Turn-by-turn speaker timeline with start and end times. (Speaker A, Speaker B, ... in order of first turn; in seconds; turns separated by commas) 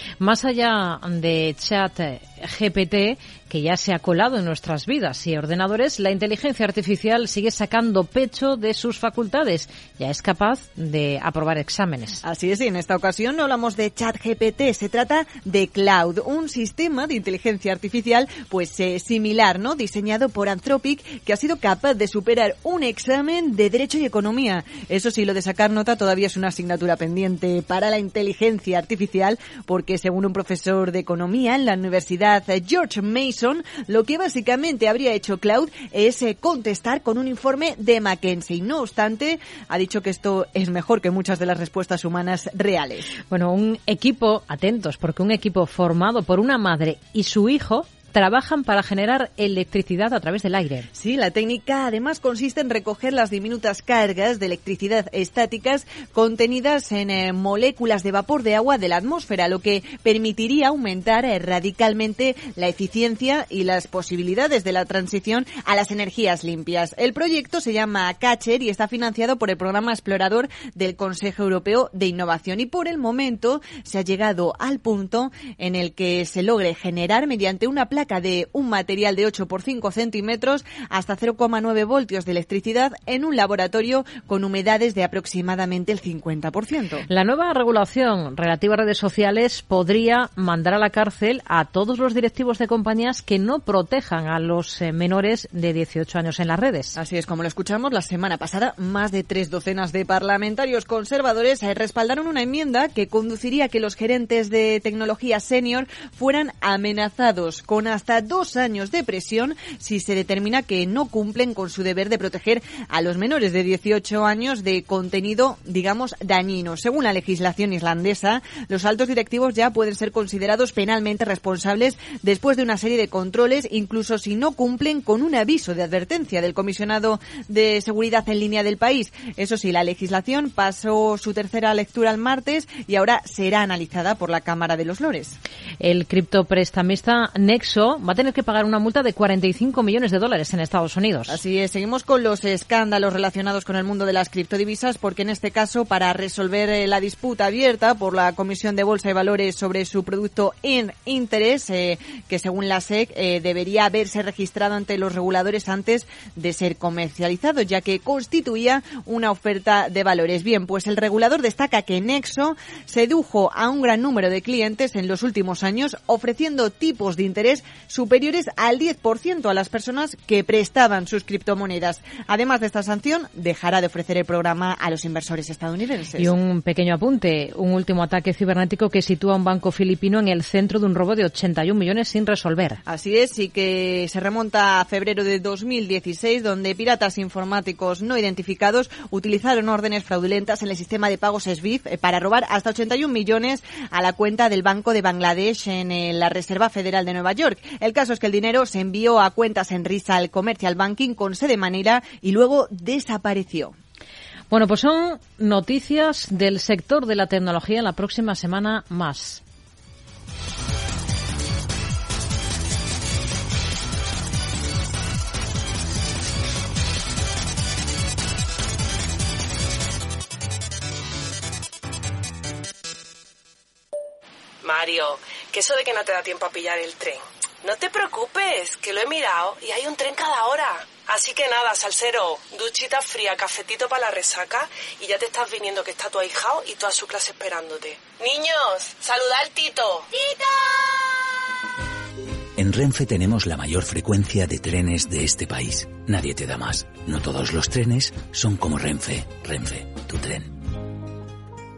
Speaker A: 0.2-12.2, Speaker B: 12.2-43.1, Speaker A: 43.3-50.9, Speaker B: 51.0-87.1, Speaker A: 87.1-97.0, Speaker B: 97.0-135.4, Speaker A: 135.8-141.4, Speaker B: 141.3-176.3, Speaker A: 176.2-182.8, Speaker B: 182.9-203.7, Speaker A: 204.5-209.4, Speaker C: 224.6-240.4, Speaker D: 242.6-250.6